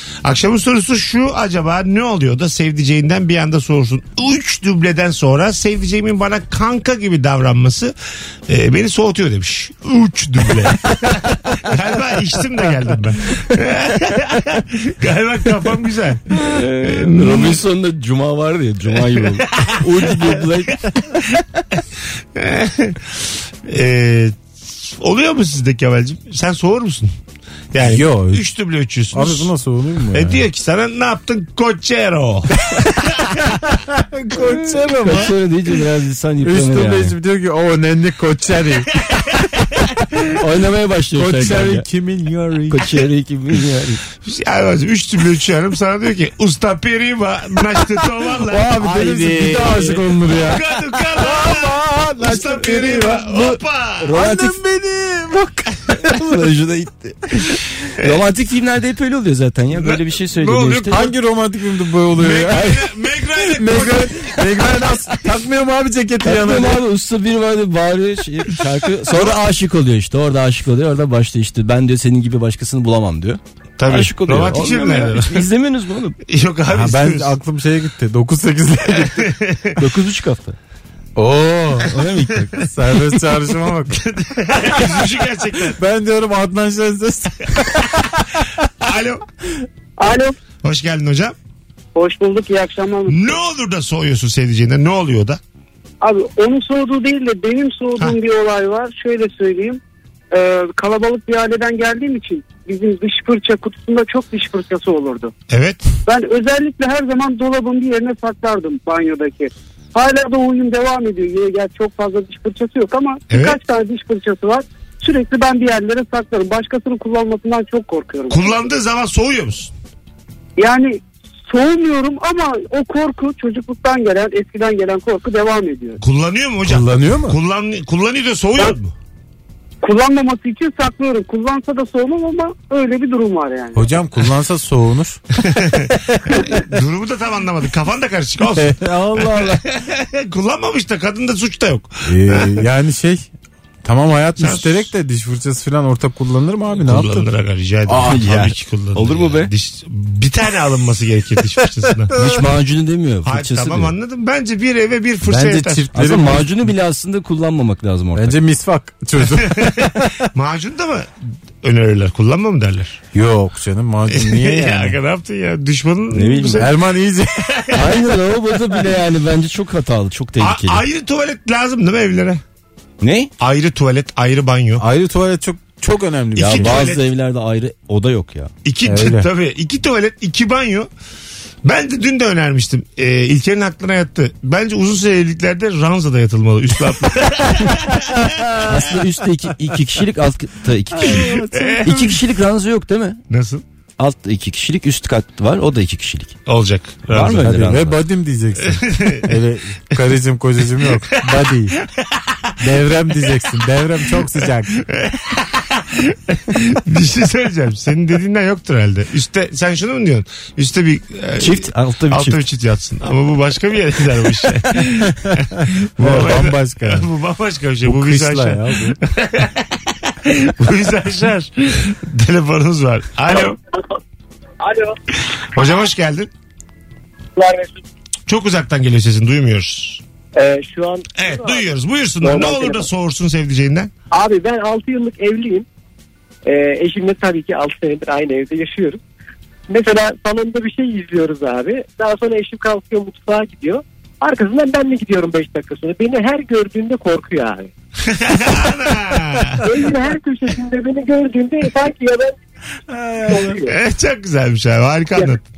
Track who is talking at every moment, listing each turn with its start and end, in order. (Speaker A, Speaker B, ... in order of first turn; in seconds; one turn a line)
Speaker A: 0.2-8.0
Speaker A: 8.5-17.6
Speaker B: 16.4-20.9
Speaker A: 20.0-20.5
Speaker A: 22.4-27.1
Speaker A: 27.7-29.5
Speaker C: 27.8-28.4
Speaker C: 29.1-30.4
Speaker A: 30.1-32.5
Speaker C: 33.8-35.3
Speaker B: 35.1-37.1
Speaker C: 36.4-38.9
Speaker B: 40.4-41.9
Speaker C: 41.1-42.9
Speaker B: 42.7-44.0
Speaker A: 44.2-48.8
Speaker C: 48.0-53.6
Speaker B: 48.6-50.1
Speaker A: 50.5-54.1
Speaker B: 54.0-54.6
Speaker C: 54.1-56.5
Speaker B: 56.1-61.0
Speaker A: 59.8-61.1
Speaker C: 60.9-62.9
Speaker A: 62.2-64.4
Speaker B: 62.5-62.8
Speaker C: 63.4-66.8
Speaker B: 66.2-76.2
Speaker A: 73.8-75.4
Speaker A: 76.3-77.3
Speaker C: 76.7-79.3
Speaker A: 79.0-79.7
Speaker B: 79.8-80.6
Speaker C: 81.2-81.9
Speaker B: 81.9-82.6
Speaker C: 82.6-84.0
Speaker A: 83.9-85.8
Speaker C: 84.5-85.1
Speaker C: 85.8-88.2
Speaker A: 88.8-89.2
Speaker D: 90.0-90.3
Speaker A: 90.6-91.3
Speaker D: 92.0-93.4
Speaker A: 93.1-95.4
Speaker D: 96.0-105.3
Speaker A: 105.5-105.8
Speaker D: 106.1-118.6
Speaker A: 113.3-113.6
Speaker A: 118.3-119.7
Speaker D: 120.6-126.0
Speaker A: 126.0-128.9
Speaker C: 126.7-127.4
Speaker D: 129.8-133.8
Speaker C: 133.8-135.2
Speaker A: 135.4-142.6
Speaker C: 136.3-136.6
Speaker C: 138.6-139.6
Speaker C: 142.1-143.3
Speaker C: 143.8-147.3
Speaker A: 144.4-144.9
Speaker A: 146.8-152.1
Speaker C: 147.9-148.2
Speaker B: 148.0-149.5
Speaker B: 152.2-153.9
Speaker A: 153.2-155.9
Speaker C: 155.2-156.7
Speaker B: 155.9-158.3
Speaker C: 158.2-160.2
Speaker A: 159.5-161.1
Speaker A: 161.6-163.0
Speaker C: 163.1-165.0
Speaker A: 164.1-166.7
Speaker B: 166.1-166.7
Speaker C: 166.6-167.8
Speaker A: 167.6-167.9
Speaker B: 167.7-170.8
Speaker A: 170.4-172.4
Speaker B: 173.0-173.3
Speaker A: 173.4-174.8
Speaker C: 174.8-176.8
Speaker B: 176.4-178.5
Speaker A: 176.4-177.0
Speaker A: 178.7-180.9
Speaker C: 178.8-179.3
Speaker A: 181.6-188.2
Speaker C: 188.2-188.6
Speaker B: 188.6-193.2
Speaker C: 190.9-191.9
Speaker A: 191.0-192.2
Speaker A: 193.3-193.6
Speaker B: 194.0-196.4
Speaker A: 196.5-197.5
Speaker B: 197.1-198.0
Speaker C: 197.2-201.8
Speaker A: 198.7-199.3
Speaker A: 202.0-202.3
Speaker C: 202.6-204.7
Speaker A: 204.9-223.6
Speaker B: 211.4-212.4
Speaker C: 216.0-217.1
Speaker C: 217.8-219.0
Speaker A: 225.5-226.3
Speaker E: 227.4-227.7
Speaker A: 228.3-230.0
Speaker E: 230.3-231.7
Speaker A: 231.2-233.9
Speaker E: 232.2-232.9
Speaker E: 234.1-235.7
Speaker E: 236.5-239.0
Speaker E: 239.7-247.7
Speaker A: 248.1-249.7
Speaker E: 249.6-252.4
Speaker C: 252.9-253.6
Speaker E: 253.3-253.7
Speaker A: 253.7-255.4